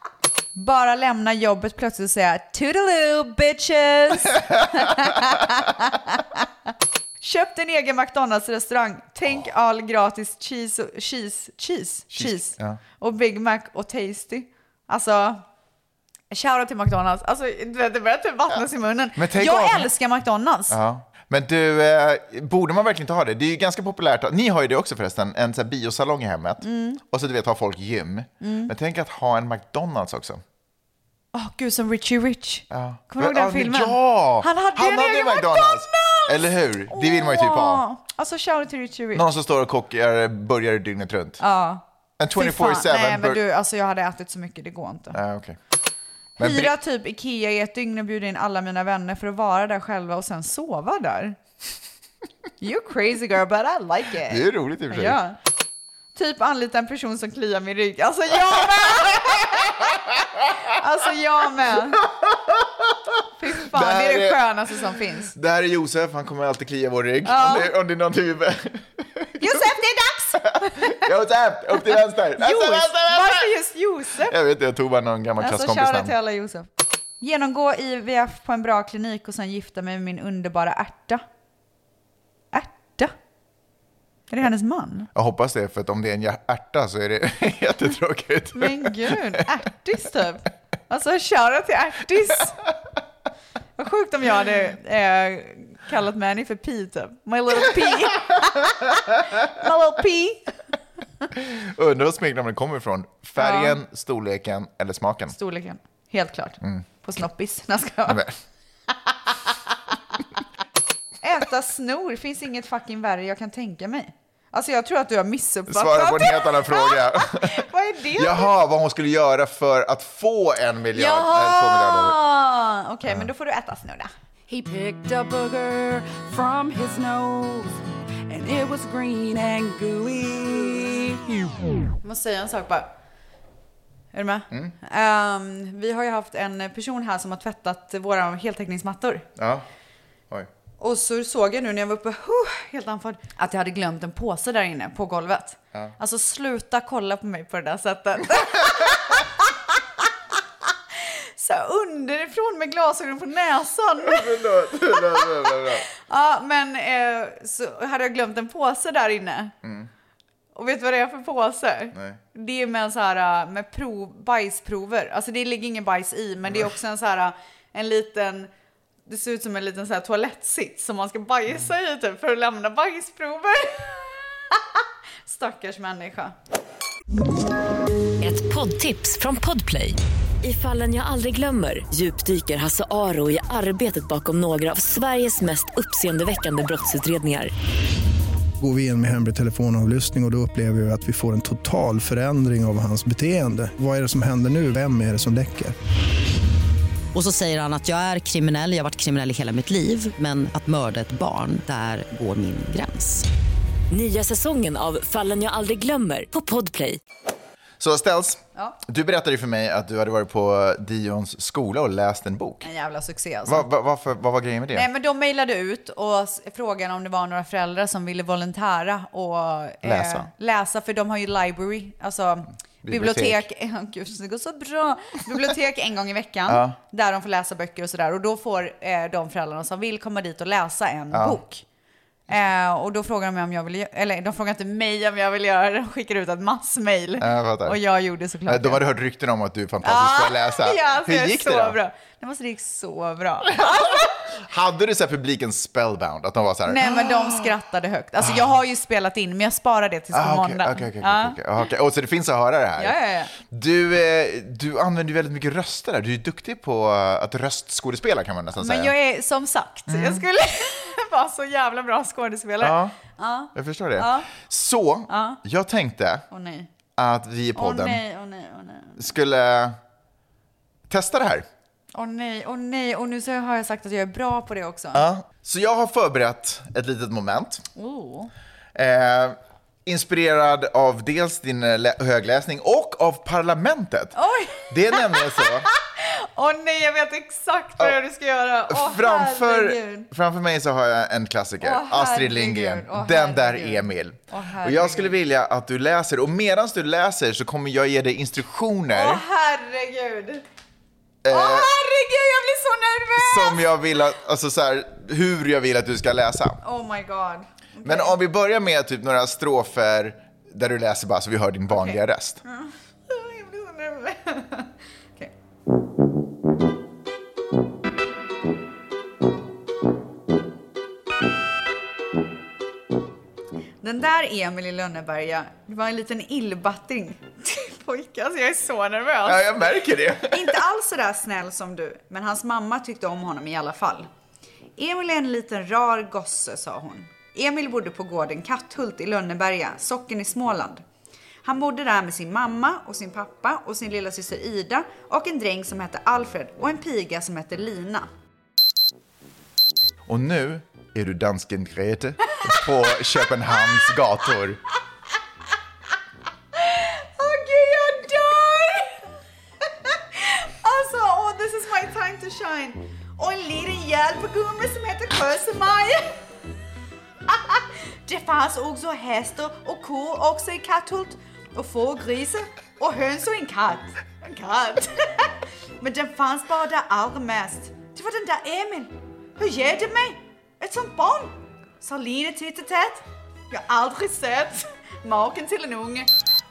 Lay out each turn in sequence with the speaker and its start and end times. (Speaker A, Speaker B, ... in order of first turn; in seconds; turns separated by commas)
Speaker A: 0.6-6.5, Speaker A: 7.2-15.4, Speaker B: 12.1-12.8, Speaker A: 16.3-20.8, Speaker B: 19.2-19.9, Speaker B: 20.7-30.4, Speaker A: 26.6-27.0, Speaker A: 28.4-28.7, Speaker A: 31.3-39.3, Speaker B: 32.7-37.8, Speaker B: 39.1-41.4, Speaker A: 41.4-45.2, Speaker B: 42.2-43.4, Speaker B: 45.1-45.6, Speaker B: 46.4-46.8, Speaker A: 46.4-51.4, Speaker A: 52.6-55.4, Speaker B: 54.3-55.2, Speaker A: 56.1-62.0, Speaker B: 59.1-59.7, Speaker B: 61.7-69.8, Speaker A: 63.4-65.3, Speaker A: 67.2-67.7, Speaker A: 69.4-71.1, Speaker B: 70.4-73.5, Speaker A: 72.3-74.4, Speaker B: 74.2-76.2, Speaker A: 75.4-76.7, Speaker A: 77.2-81.2, Speaker A: 82.5-83.1, Speaker A: 84.3-85.1, Speaker B: 85.1-89.4, Speaker A: 88.5-92.6, Speaker A: 93.8-100.6, Speaker B: 101.3-105.4, Speaker A: 103.4-103.8, Speaker A: 105.3-108.2, Speaker B: 108.1-108.3, Speaker A: 111.2-118.5, Speaker B: 115.7-122.2, Speaker A: 120.9-124.1, Speaker C: 124.5-131.5, Speaker A: 132.0-132.9, Speaker A: 134.1-139.3, Speaker B: 139.4-139.7, Speaker A: 140.8-149.8, Speaker A: 151.0-154.3, Speaker B: 154.0-155.9, Speaker A: 155.0-159.5, Speaker B: 159.6-159.9, Speaker A: 160.5-168.5, Speaker B: 161.9-162.2, Speaker A: 169.1-176.3, Speaker D: 178.2-187.5, Speaker E: 188.6-195.8, Speaker F: 197.1-203.3, Speaker D: 203.9-207.0, Speaker B: 207.8-212.7, Speaker A: 212.6-213.7, Speaker B: 213.5-214.9, Speaker A: 214.7-231.6, Speaker B: 219.8-220.3, Speaker B: 222.8-223.5, Speaker B: 226.5-226.8, Speaker B: 231.1-231.4, Speaker A: 232.3-238.8, Speaker B: 237.2-237.8, Speaker B: 238.5-241.8, Speaker A: 239.8-244.2, Speaker B: 243.6-247.5, Speaker A: 246.7-251.4, Speaker B: 250.1-258.9, Speaker A: 252.8-253.3, Speaker A: 258.6-264.3, Speaker B: 259.9-260.2, Speaker B: 262.6-263.0, Speaker B: 263.5-266.2, Speaker A: 265.1-265.4, Speaker A: 266.3-266.7, Speaker B: 267.0-268.0, Speaker A: 267.6-269.0, Speaker B: 269.0-269.8, Speaker B: 270.9-271.5, Speaker A: 271.9-275.0, Speaker B: 274.9-277.7, Speaker A: 277.8-278.3, Speaker B: 278.8-285.7, Speaker A: 284.2-290.1, Speaker B: 288.7-299.2, Speaker A: 291.6-295.2, Speaker A: 298.9-300.4, Speaker B: 301.2-301.7, Speaker A: 301.3-303.7, Speaker B: 303.2-306.6, Speaker A: 306.6-308.2, Speaker B: 307.8-312.4, Speaker A: 311.7-315.3, Speaker A: 323.8-329.7, Speaker B: 329.2-330.6, Speaker A: 330.3-334.1, Speaker A: 334.8-340.8, Speaker A: 341.4-348.1, Speaker B: 350.1-354.6, Speaker A: 356.6-359.0, Speaker A: 359.9-366.1, Speaker A: 367.3-386.1